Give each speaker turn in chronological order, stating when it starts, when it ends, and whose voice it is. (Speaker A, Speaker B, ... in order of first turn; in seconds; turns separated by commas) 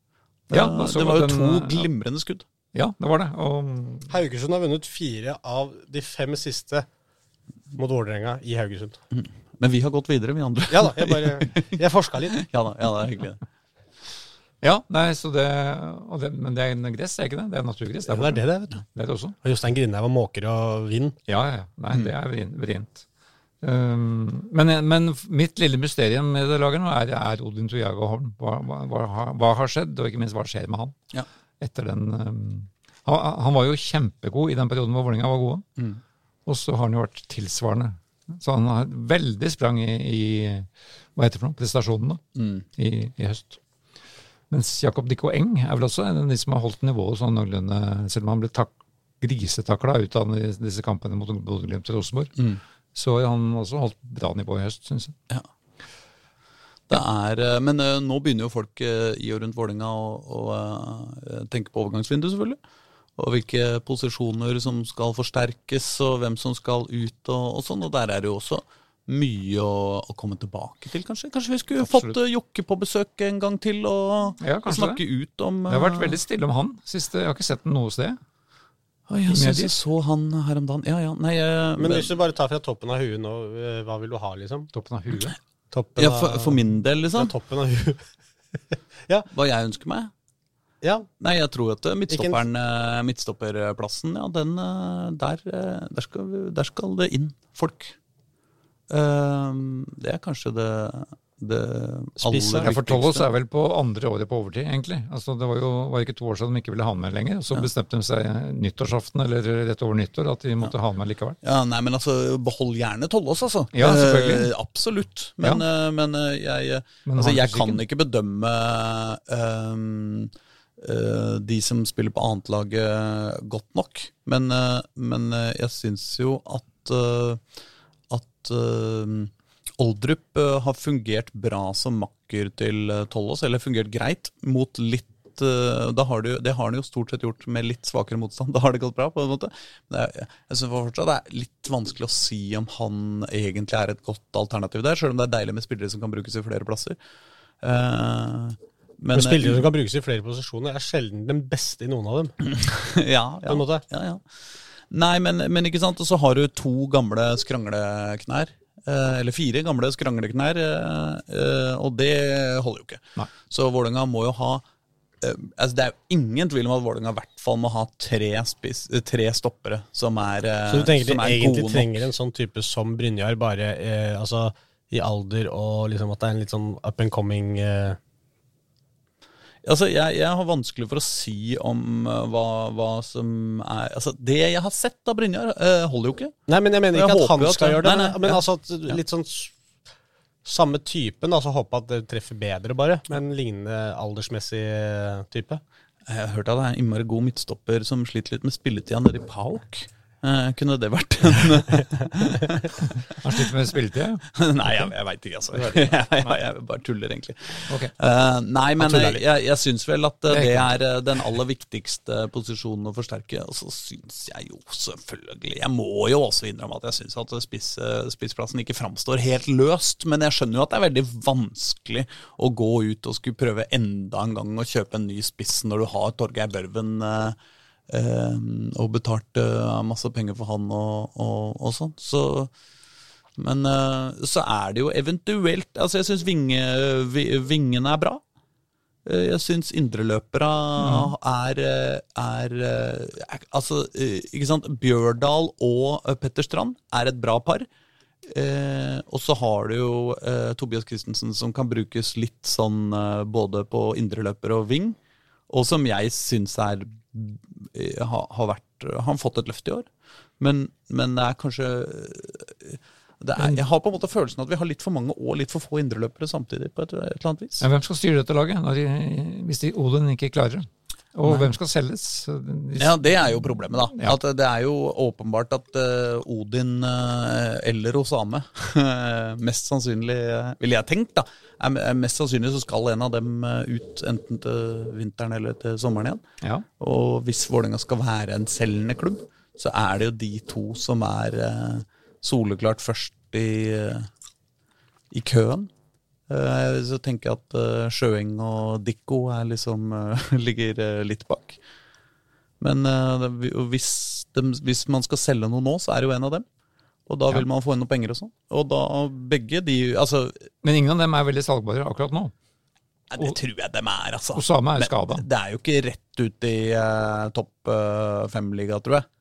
Speaker A: 0.5-2.4, Speaker B: 0.5-1.9, Speaker B: 2.7-4.1, Speaker C: 4.1-6.9, Speaker C: 7.7-9.0, Speaker A: 9.1-11.8, Speaker C: 10.7-12.4, Speaker A: 12.3-13.4, Speaker B: 14.6-19.3, Speaker C: 18.1-18.8, Speaker C: 19.4-21.1, Speaker B: 21.3-23.0, Speaker B: 23.6-31.0, Speaker B: 31.6-35.6, Speaker B: 36.5-42.2, Speaker A: 42.4-42.6, Speaker B: 42.8-43.6, Speaker B: 44.5-52.3, Speaker B: 52.9-55.1, Speaker A: 56.9-62.6, Speaker A: 63.2-76.2, Speaker B: 71.8-72.2, Speaker B: 74.4-75.0, Speaker B: 75.7-78.2, Speaker A: 79.1-82.1, Speaker B: 79.3-79.7, Speaker C: 81.8-84.7, Speaker B: 84.7-85.3, Speaker C: 85.7-86.6, Speaker A: 86.0-87.3, Speaker C: 87.1-88.0, Speaker A: 89.3-90.1, Speaker C: 90.8-91.1, Speaker A: 91.2-98.0, Speaker C: 92.1-92.4, Speaker A: 98.9-103.3, Speaker B: 102.3-111.4, Speaker A: 111.4-127.4, Speaker B: 113.7-114.5, Speaker B: 117.0-117.8, Speaker A: 128.1-146.9, Speaker A: 147.6-149.7, Speaker C: 149.1-152.3, Speaker A: 152.4-154.2, Speaker C: 153.5-153.8, Speaker A: 154.9-164.6, Speaker A: 165.2-172.1, Speaker C: 170.7-178.0, Speaker A: 179.6-186.3, Speaker C: 186.5-189.5, Speaker A: 186.9-189.0, Speaker C: 190.4-195.6, Speaker A: 196.1-202.9, Speaker B: 203.1-204.2, Speaker A: 204.3-227.4, Speaker C: 208.8-209.2, Speaker B: 210.3-210.7, Speaker A: 227.9-232.5, Speaker A: 233.4-238.2, Speaker A: 239.0-247.7, Speaker B: 240.8-241.1, Speaker A: 248.2-255.0, Speaker A: 255.5-259.9, Speaker A: 260.4-267.7, Speaker B: 267.6-274.2, Speaker A: 271.2-271.5, Speaker A: 272.8-286.2, Speaker A: 286.8-294.1, Speaker A: 295.1-295.7, Speaker A: 296.3-301.6, Speaker A: 302.6-306.4, Speaker A: 307.1-310.4, Speaker B: 310.6-312.3, Speaker A: 313.1-319.1, Speaker B: 314.3-315.2